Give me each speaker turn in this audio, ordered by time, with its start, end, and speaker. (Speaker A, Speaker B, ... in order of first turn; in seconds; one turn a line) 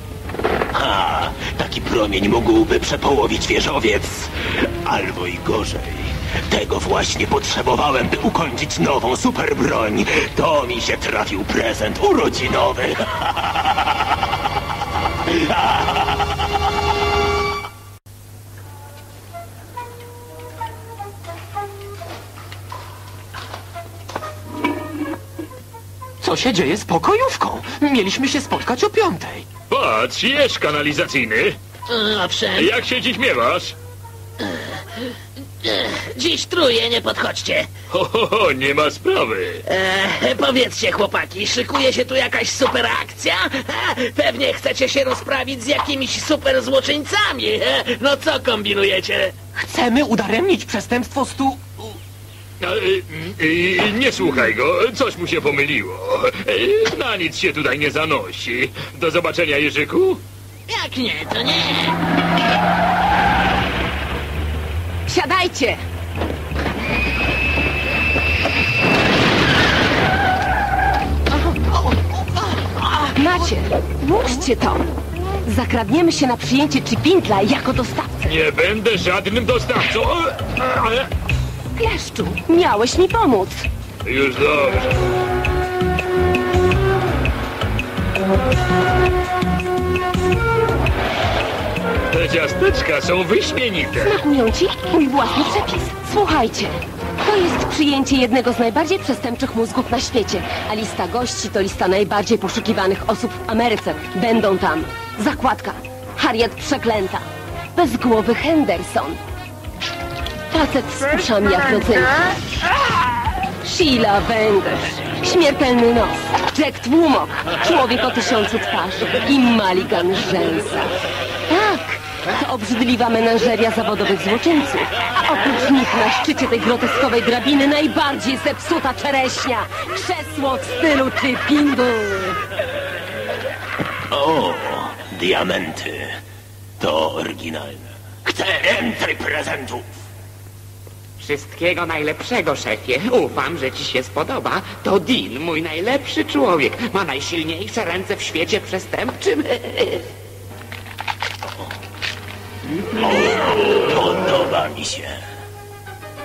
Speaker A: 0.7-13.8
Speaker A: 15.2-15.8
Speaker B: 26.2-29.4
Speaker C: 29.7-31.6
Speaker D: 31.9-32.7
Speaker C: 32.5-33.7
Speaker D: 35.6-37.7
Speaker C: 37.9-39.6
Speaker D: 39.6-49.3
Speaker B: 49.5-51.9
Speaker C: 52.6-60.2
Speaker D: 60.7-61.9
Speaker E: 65.0-65.8
Speaker B: 71.3-73.5
Speaker E: 73.2-74.9
Speaker E: 75.4-78.2
Speaker C: 78.2-81.1
Speaker E: 81.7-83.6
Speaker C: 84.0-85.0
Speaker C: 92.1-94.2
Speaker E: 93.9-109.2
Speaker E: 110.5-112.4
Speaker E: 113.6-120.9
Speaker E: 121.5-132.4
Speaker A: 134.1-136.2
Speaker A: 136.8-139.9
Speaker F: 141.2-150.1
Speaker A: 153.0-155.2